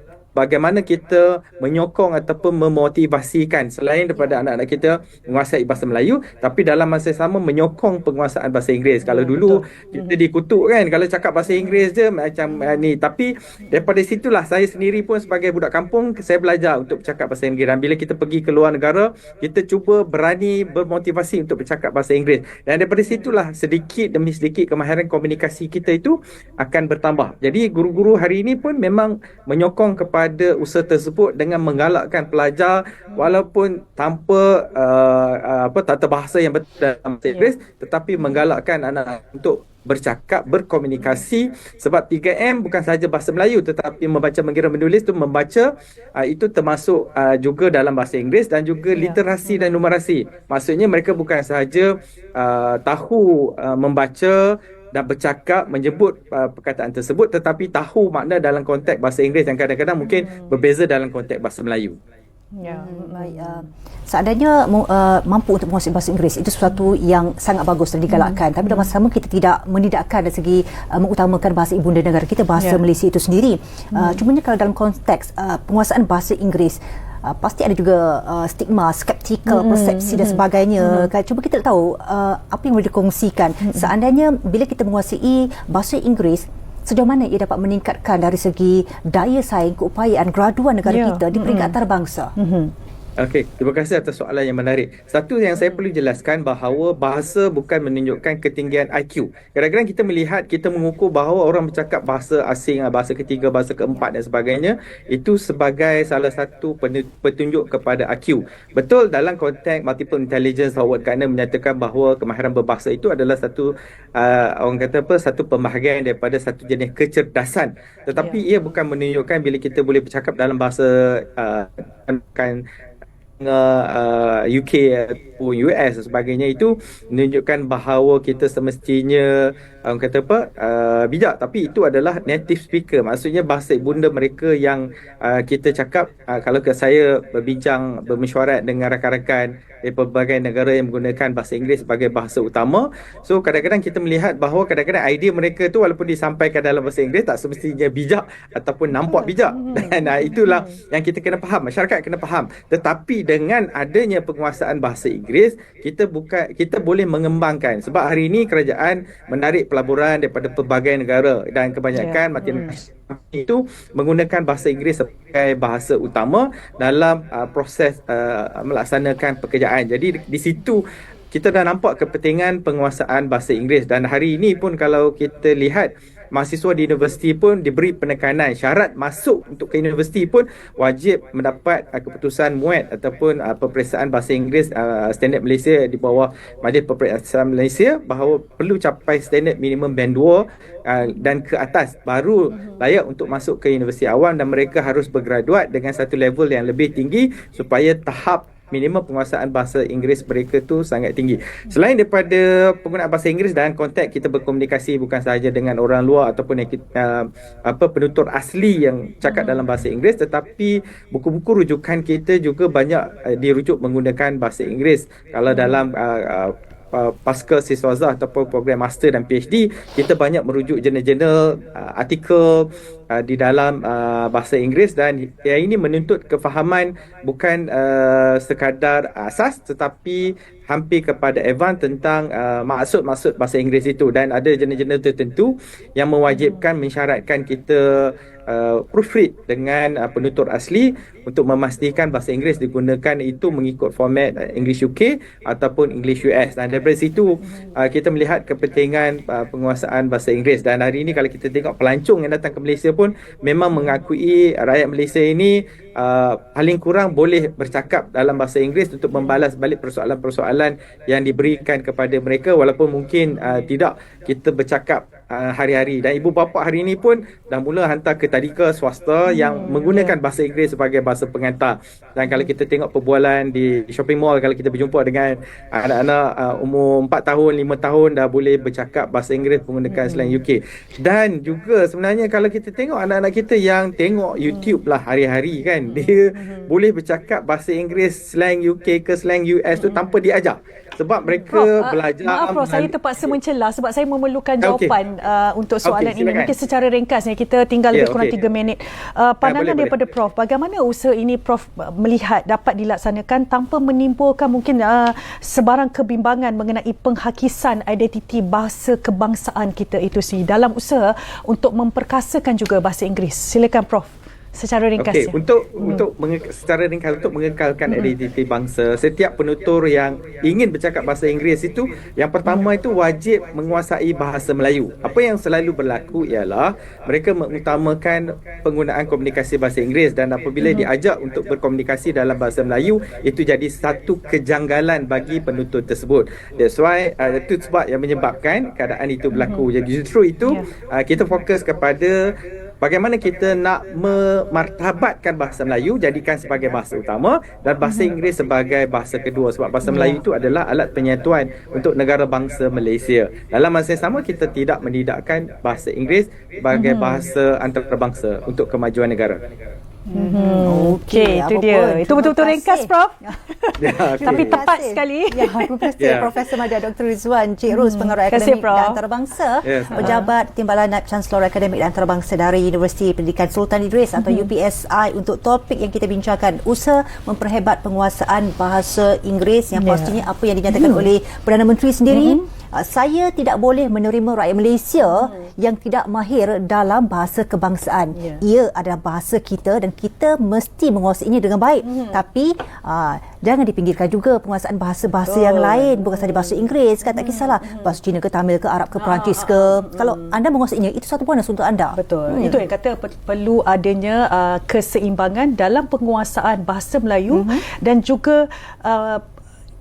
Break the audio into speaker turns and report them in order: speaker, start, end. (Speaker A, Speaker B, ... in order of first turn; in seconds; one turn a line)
Speaker A: 0.3-62.0
Speaker B: 9.0-10.2
Speaker B: 12.5-12.8
Speaker B: 38.1-38.4
Speaker B: 48.9-49.5
Speaker B: 60.0-60.5
Speaker B: 62.5-63.7
Speaker C: 62.6-92.3
Speaker B: 68.1-68.9
Speaker B: 73.9-74.2
Speaker B: 79.5-81.1
Speaker B: 83.6-83.9
Speaker B: 90.8-91.7
Speaker B: 92.3-92.7
Speaker A: 93.2-122.6
Speaker B: 118.1-118.4
Speaker A: 123.4-293.3
Speaker B: 148.9-150.8
Speaker B: 161.9-162.7
Speaker B: 192.5-192.8
Speaker B: 209.2-209.6
Speaker B: 215.5-215.8
Speaker B: 253.7-254.0
Speaker B: 269.2-270.1
Speaker B: 279.9-280.4
Speaker B: 284.4-284.8
Speaker B: 285.9-286.7
Speaker B: 289.8-290.0
Speaker B: 291.2-316.0
Speaker A: 294.6-294.9
Speaker A: 295.8-296.5
Speaker A: 297.9-298.4
Speaker A: 299.4-300.0
Speaker A: 315.0-342.2
Speaker B: 330.6-330.9
Speaker B: 339.3-339.7
Speaker A: 342.8-359.4
Speaker B: 347.8-348.1
Speaker B: 349.8-350.2
Speaker B: 356.7-357.3
Speaker B: 360.1-366.5
Speaker C: 360.1-363.3
Speaker A: 363.8-364.6
Speaker C: 364.2-402.6
Speaker A: 366.0-366.3
Speaker B: 367.7-369.0
Speaker A: 369.6-370.2
Speaker B: 369.9-370.3
Speaker B: 374.2-374.5
Speaker B: 379.7-381.1
Speaker B: 382.1-382.4
Speaker B: 385.0-385.5
Speaker B: 388.1-388.4
Speaker B: 391.8-392.2
Speaker B: 395.2-397.9
Speaker B: 398.9-400.3
Speaker B: 401.9-409.2
Speaker C: 407.3-407.6